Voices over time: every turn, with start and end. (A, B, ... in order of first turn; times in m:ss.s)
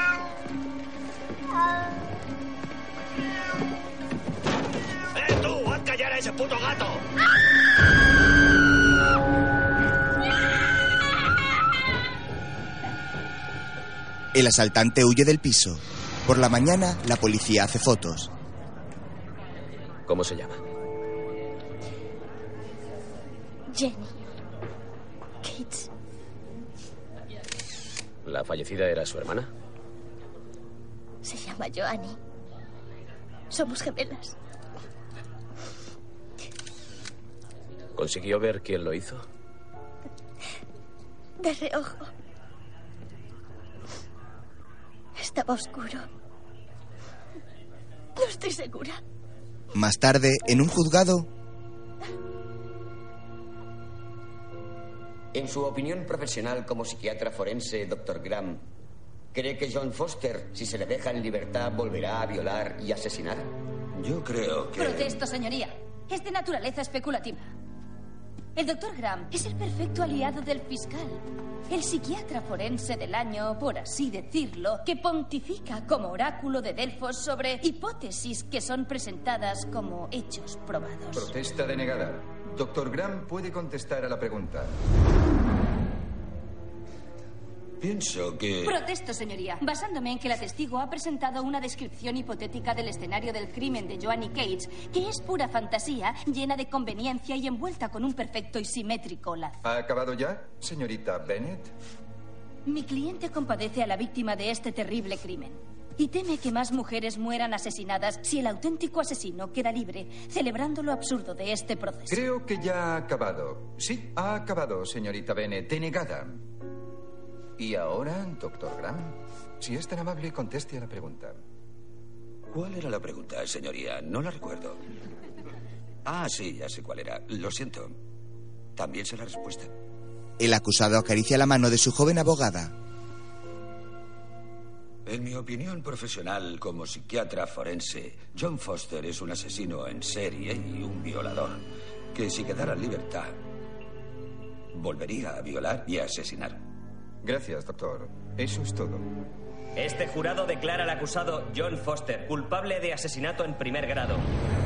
0:14.3-0:18.3 A
0:20.1-0:20.6 B
0:23.7-0:24.1 C
0:25.4-0:25.8 C
0:28.2-0:29.5 B
0:31.2-0:32.2 C
0:33.5-0:34.3 C
0:38.0-0:39.2 B
0:41.4-0:41.9 C
0:45.2-0:46.0 C
0:48.2-0:48.9 C
0:49.7-0:51.3 A
0:55.3-0:58.6 D
0:59.3-1:03.5 D
1:03.9-1:05.2 E
1:04.8-1:07.5 F
1:08.5-1:21.3 F
1:21.1-1:24.8 G
1:27.8-1:28.8 E
1:28.6-1:39.6 F
1:39.6-1:41.7 G
1:42.6-1:52.2 F
1:52.1-1:56.5 G
1:57.6-2:01.4 G
2:02.5-2:04.8 E
2:06.0-2:08.0 E
2:08.8-2:09.7 E
2:10.4-2:12.7 A
2:15.0-2:23.4 E
2:24.7-2:26.6 E
2:27.2-2:29.1 G
2:29.8-2:34.3 H